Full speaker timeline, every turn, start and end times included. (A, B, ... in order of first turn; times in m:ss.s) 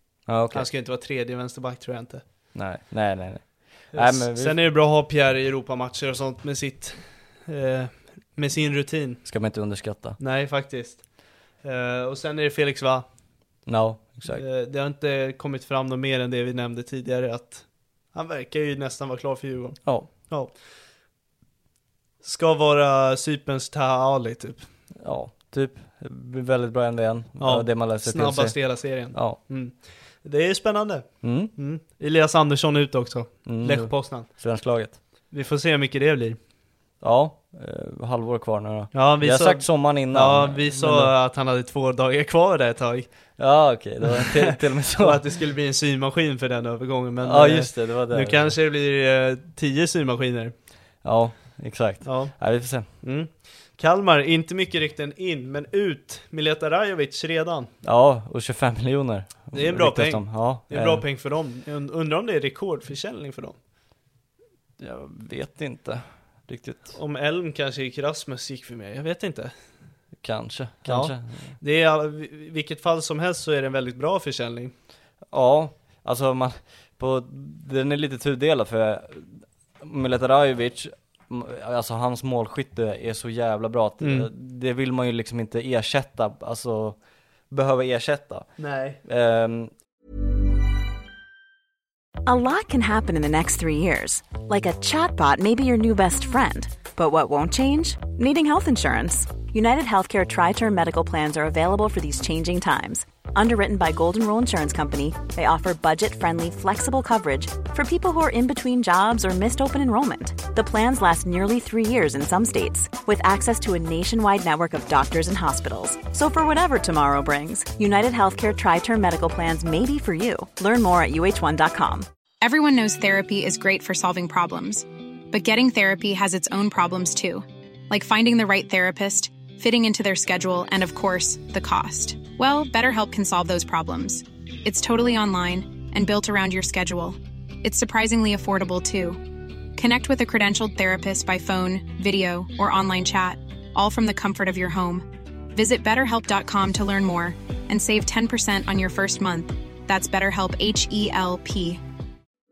0:00.3-0:00.7 A
0:00.5-0:02.2 B
0:02.5-0:04.6 A
0:03.9-0:09.2 B
0:09.2-0:10.2 A
0:10.2-0:11.0 B
0:11.6-0:13.0 B
0:13.6-0:14.4 A
0:14.3-0:20.5 B
0:22.2-0:24.7 B
0:25.0-0:29.4 A
0:27.4-0:34.3 B
0:31.2-0:31.5 A
0:33.4-0:35.0 A
0:35.3-0:36.4 B
0:37.0-0:41.1 A
0:38.9-0:43.1 B
0:43.4-0:45.2 A
0:44.0-0:50.5 B
0:47.2-0:48.5 A
0:51.0-0:52.9 A
0:52.0-0:52.3 B
0:53.0-0:57.7 B
0:57.8-1:01.0 A
0:59.5-1:03.6 B
1:04.8-1:07.0 A
1:06.9-1:09.5 B
1:10.2-1:11.5 A
1:10.8-1:14.7 B
1:15.3-1:27.0 A
1:24.0-1:24.3 B
1:27.5-1:28.5 A
1:28.6-1:29.0 B
1:29.0-1:29.7 A
1:32.2-2:02.1 C
2:02.4-2:19.2 D
2:19.8-2:31.8 D